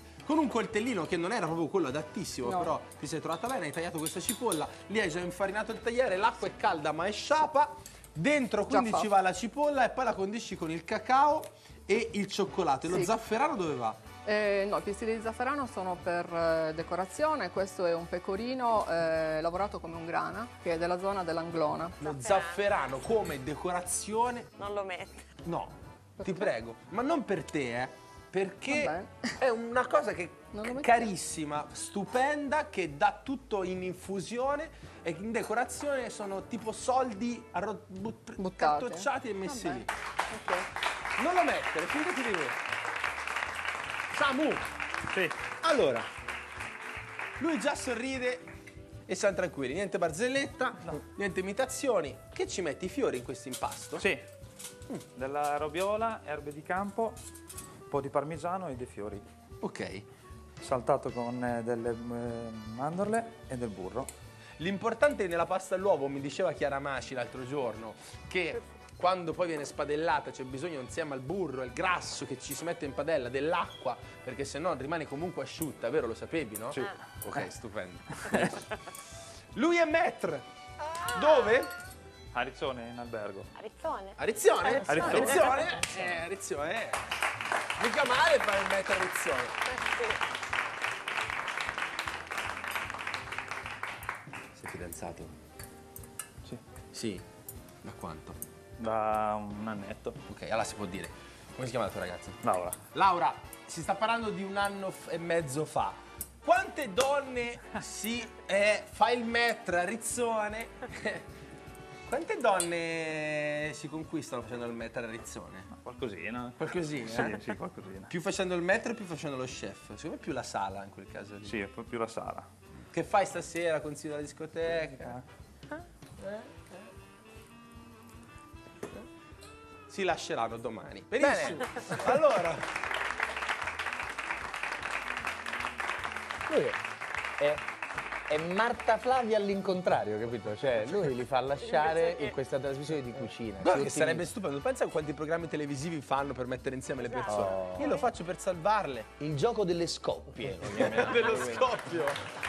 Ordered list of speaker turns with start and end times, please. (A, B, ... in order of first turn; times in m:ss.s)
0:00.3-0:14.0 A
0:02.4-0:02.8 B
0:08.7-0:09.1 B
0:12.9-0:13.1 B
0:14.2-0:22.0 B
0:22.0-0:22.9 C
0:22.0-0:24.5 A
0:24.6-0:25.4 C
0:25.4-0:39.9 A
0:26.2-0:26.5 B
0:28.7-0:29.4 B
0:30.5-0:31.1 B
0:38.4-0:40.7 B
0:41.2-0:42.6 A
0:44.1-0:44.7 A
0:45.1-0:45.4 D
0:45.5-0:46.1 A
0:47.4-0:48.5 A
0:49.1-0:54.1 A
0:54.0-0:54.2 D
0:55.2-0:57.2 D
0:57.9-0:59.2 D
0:59.6-1:00.1 A
1:00.6-1:04.1 D
1:04.6-1:18.6 A
1:18.2-1:18.5 D
1:19.6-1:21.7 A
1:21.1-1:21.6 C
1:22.3-1:23.5 D
1:23.6-1:25.4 C
1:24.2-1:27.0 A
1:24.8-1:25.7 D
1:27.8-1:29.6 A
1:29.7-1:30.2 C
1:34.6-1:35.3 A
1:36.9-1:37.2 A
1:37.8-1:38.4 A
1:38.8-1:40.2 D
1:40.3-1:42.4 A
1:42.4-1:42.8 D
1:42.9-1:51.2 A
1:52.1-1:55.7 A
1:55.8-1:58.1 D
1:56.6-1:57.5 A
1:58.1-2:01.6 A
2:01.4-2:02.5 D
2:02.9-2:05.2 A
2:06.2-2:06.5 A
2:09.9-2:12.7 A
2:11.2-2:11.9 E
2:16.5-2:16.8 E
2:17.4-2:17.6 E
2:18.3-2:24.3 E
2:21.6-2:22.4 C
2:23.6-2:29.1 A
2:27.0-2:28.0 C
2:27.4-2:27.9 E
2:29.2-2:31.7 E
2:30.7-2:32.2 A